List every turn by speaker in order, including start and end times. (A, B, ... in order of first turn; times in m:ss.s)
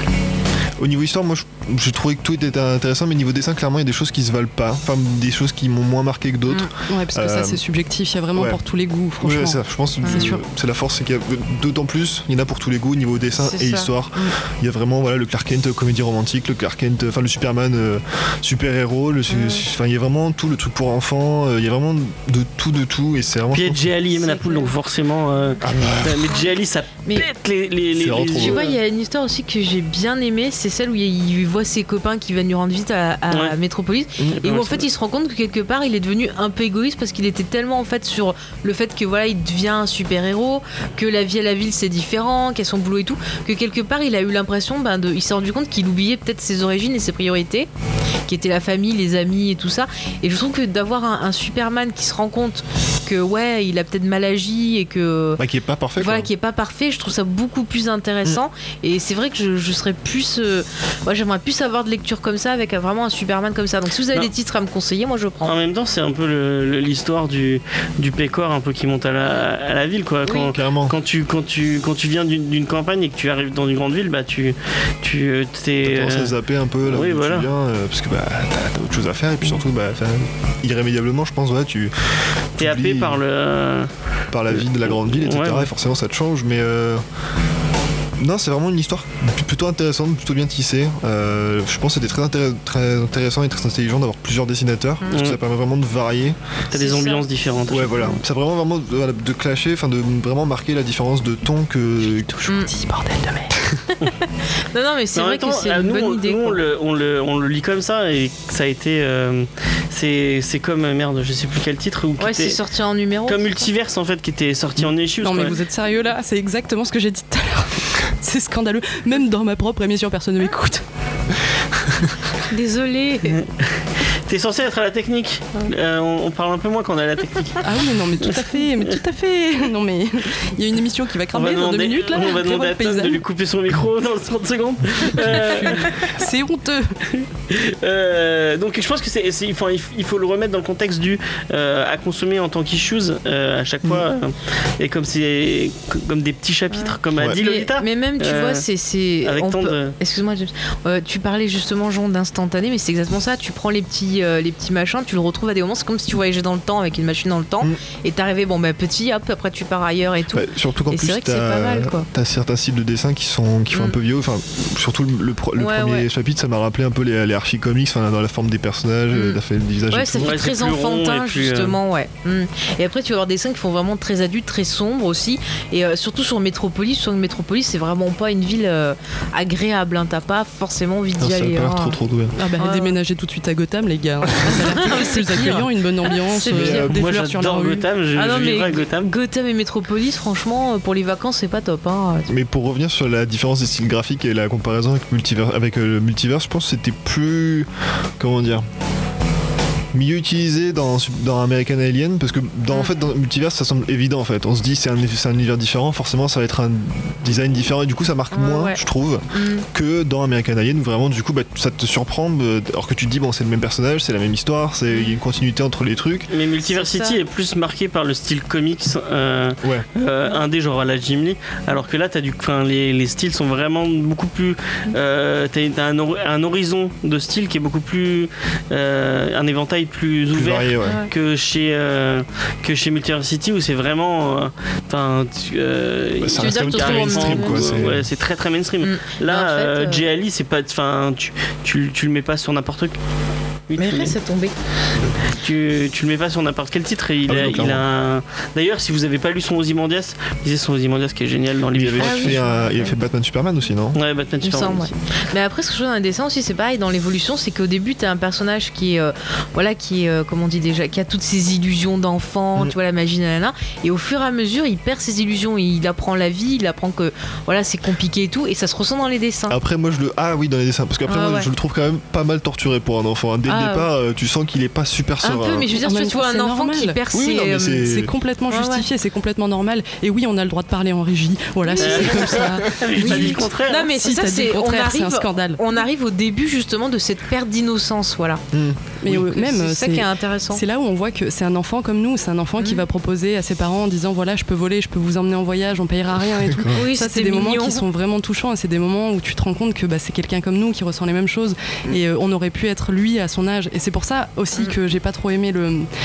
0:00.8-0:07.6 A
0:06.9-0:10.4 B
0:08.4-0:08.6 A
0:09.2-0:23.9 A
0:10.0-0:10.3 C
0:13.4-0:14.4 C
0:19.3-0:19.6 C
0:23.5-0:28.8 D
0:24.1-0:24.7 C
0:25.6-0:26.4 A
0:27.9-0:28.6 A
0:28.4-0:47.7 C
0:34.4-0:34.9 D
0:48.3-0:55.4 C
0:55.4-0:56.3 A
0:56.0-1:05.6 C
1:05.4-1:16.3 D
1:10.3-1:10.6 C
1:10.4-1:11.0 A
1:15.8-1:21.9 A
1:16.9-1:17.5 D
1:22.5-1:23.2 A
1:22.6-1:23.9 D
1:24.3-1:27.0 A
1:24.5-1:25.7 D
1:28.2-1:36.4 A
1:35.1-1:35.4 D
1:36.7-1:38.2 D
1:36.7-1:37.3 C
1:37.7-1:42.3 A
1:42.0-1:43.6 B
1:44.7-1:46.6 C
1:45.2-1:52.6 D
1:52.2-1:53.7 C
1:53.3-1:55.5 D
1:55.2-2:00.8 B
2:02.5-2:03.4 C
2:03.3-2:07.6 D
2:07.6-2:13.2 B
2:08.2-2:08.5 D
2:11.3-2:15.9 D
2:15.2-2:17.0 B
2:17.1-2:28.6 D
2:26.7-2:42.1 C
2:29.2-2:29.9 D
2:40.3-2:50.4 A
2:45.6-2:46.1 C
2:49.1-2:49.4 C
2:49.9-3:02.0 C
2:50.2-2:51.8 D
3:01.2-3:02.3 A
3:02.4-3:07.9 B
3:02.6-3:03.0 C
3:04.5-3:06.9 C
3:06.5-3:07.0 A
3:06.9-3:09.1 D
3:08.2-3:12.3 C
3:12.3-3:17.7 A
3:18.2-3:18.6 A
3:19.9-3:36.3 A
3:28.3-3:28.8 C
3:29.3-3:29.7 C
3:36.3-4:03.0 D
3:36.6-3:37.2 C
3:50.3-3:51.0 A
3:50.8-3:51.1 C
3:56.2-3:58.1 A
3:56.4-3:57.8 C
3:58.8-4:00.0 C
4:03.7-4:04.2 D
4:03.8-4:04.6 C
4:05.3-4:12.4 D
4:07.3-4:07.8 A
4:11.7-4:14.0 A
4:12.0-4:13.0 C
4:14.0-4:14.9 D
4:14.4-4:29.6 C
4:29.5-4:35.7 A
4:31.1-4:31.5 C
4:33.5-4:33.9 C
4:35.2-4:37.8 C
4:35.8-4:37.0 B
4:37.1-4:38.1 A
4:37.8-4:45.6 B
4:38.5-4:38.9 C
4:41.7-4:48.4 C
4:41.8-4:43.9 D
4:48.5-4:49.2 A
4:49.0-5:05.9 B
4:49.1-4:50.6 C
4:52.6-4:52.8 C
4:56.4-4:56.8 A
4:56.7-4:57.8 C